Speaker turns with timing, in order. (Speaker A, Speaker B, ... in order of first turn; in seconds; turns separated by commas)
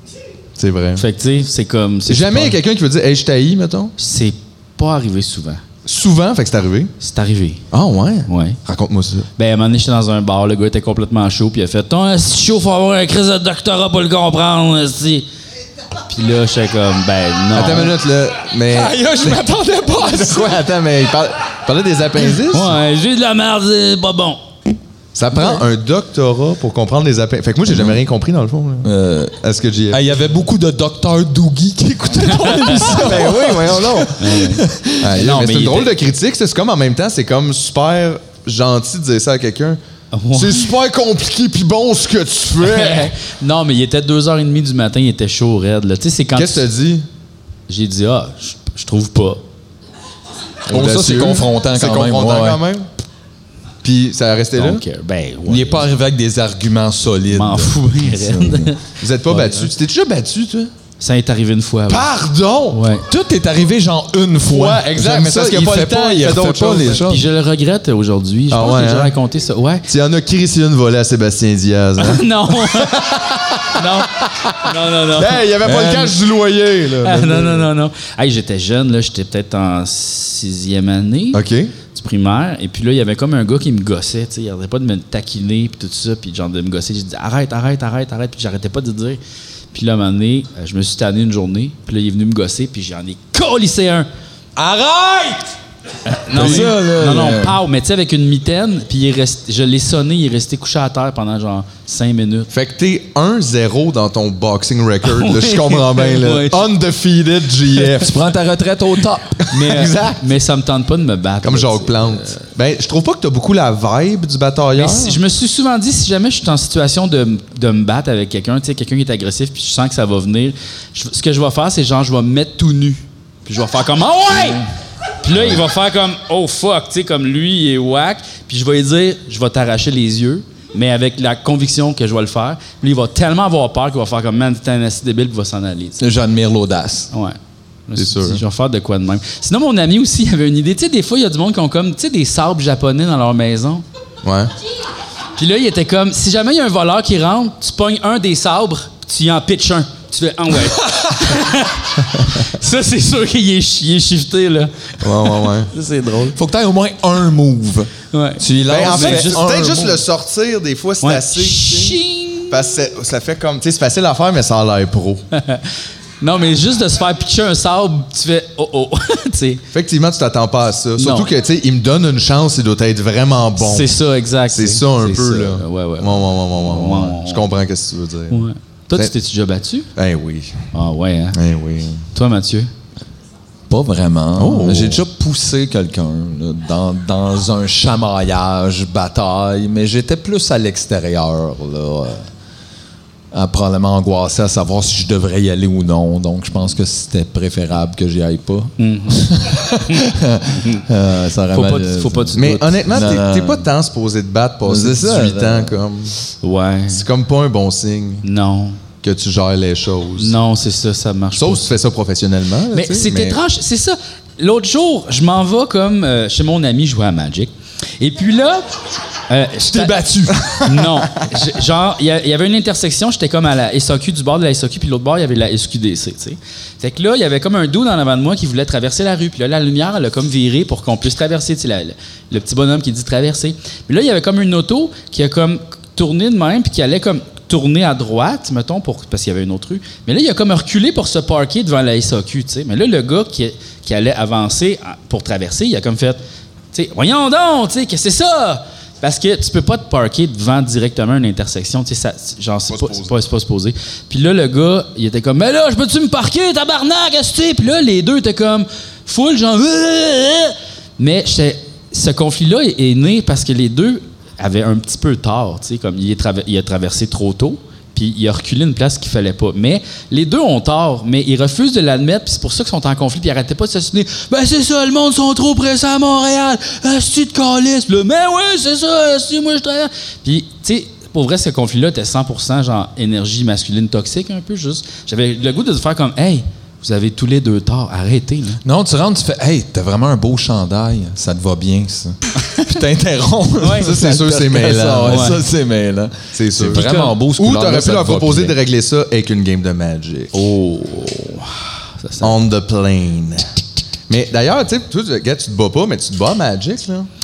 Speaker A: 0.6-1.0, Speaker B: 1.0-2.6, Speaker A: 2.1-3.9, Speaker B: 4.0-5.6, Speaker A: 5.8-6.9, Speaker B: 7.0-7.6, Speaker A: 7.7-9.3, Speaker B: 8.3-8.6, Speaker B: 9.4-15.3, Speaker B: 16.1-17.9, Speaker A: 17.5-22.8, Speaker C: 18.7-20.6, Speaker B: 22.5-24.4, Speaker A: 25.1-30.0, Speaker C: 27.7-28.0, Speaker C: 28.8-29.4, Speaker C: 29.9-35.1, Speaker B: 32.4-33.2, Speaker A: 32.8-34.1, Speaker B: 34.1-35.9, Speaker A: 35.0-39.8, Speaker B: 40.1-40.7, Speaker A: 40.3-43.1, Speaker B: 42.6-46.6, Speaker A: 46.3-47.0, Speaker B: 47.7-49.4, Speaker A: 50.7-52.9, Speaker C: 50.7-52.6, Speaker A: 53.8-54.8, Speaker B: 54.5-55.9, Speaker C: 55.5-58.7, Speaker B: 57.3-59.7, Speaker A: 59.0-60.7, Speaker B: 61.0-62.1, Speaker A: 61.9-62.8, Speaker B: 62.7-63.0, Speaker C: 63.0-67.2, Speaker A: 64.5-67.0, Speaker B: 67.0-69.9, Speaker A: 68.5-69.1, Speaker A: 69.9-73.7, Speaker B: 72.0-75.4, Speaker A: 75.2-77.7, Speaker C: 75.6-76.2, Speaker B: 77.0-81.4, Speaker A: 81.3-81.7, Speaker B: 81.9-89.2, Speaker B: 89.7-94.1, Speaker C: 94.5-95.5, Speaker B: 96.0-102.5, Speaker C: 96.3-97.6, Speaker A: 96.4-96.7, Speaker A: 102.5-108.2, Speaker B: 105.0-106.7, Speaker C: 108.0-109.4, Speaker A: 109.4-110.2, Speaker B: 109.5-112.4, Speaker A: 111.4-115.2, Speaker B: 114.7-124.6, Speaker B: 125.2-136.0, Speaker C: 136.0-137.1, Speaker B: 137.1-137.4, Speaker B: 137.9-143.8, Speaker A: 138.0-138.4, Speaker A: 144.2-144.5, Speaker B: 145.3-156.4, Speaker A: 155.0-155.7, Speaker C: 156.3-160.0, Speaker B: 158.1-159.4, Speaker A: 158.7-165.2, Speaker B: 161.0-162.5, Speaker B: 165.3-165.7, Speaker B: 166.2-169.6, Speaker A: 169.7-173.9, Speaker B: 171.0-171.3, Speaker B: 173.6-177.4, Speaker A: 174.5-179.1, Speaker B: 178.3-179.9, Speaker A: 179.9-180.7, Speaker B: 180.7-181.4, Speaker A: 181.3-182.0, Speaker B: 182.1-182.7, Speaker C: 183.7-192.2, Speaker A: 184.3-185.0, Speaker C: 193.3-202.4, Speaker B: 198.8-200.0, Speaker B: 200.6-200.8, Speaker B: 201.5-202.9, Speaker A: 202.3-206.2, Speaker C: 202.9-203.7, Speaker C: 204.6-205.8, Speaker B: 206.4-207.0, Speaker A: 206.9-208.2, Speaker B: 208.2-208.8, Speaker A: 209.0-210.3, Speaker B: 210.2-211.7, Speaker A: 211.4-213.4, Speaker B: 212.7-218.7, Speaker B: 219.3-246.2, Speaker C: 219.7-220.6, Speaker B: 246.7-288.6, Speaker A: 252.7-253.2, Speaker C: 288.6-298.6, Speaker B: 293.6-293.9, Speaker A: 293.8-295.3, Speaker B: 295.1-295.4, Speaker A: 296.3-300.3, Speaker B: 296.8-297.1, Speaker B: 300.3-302.4, Speaker A: 302.2-303.5, Speaker A: 304.1-307.1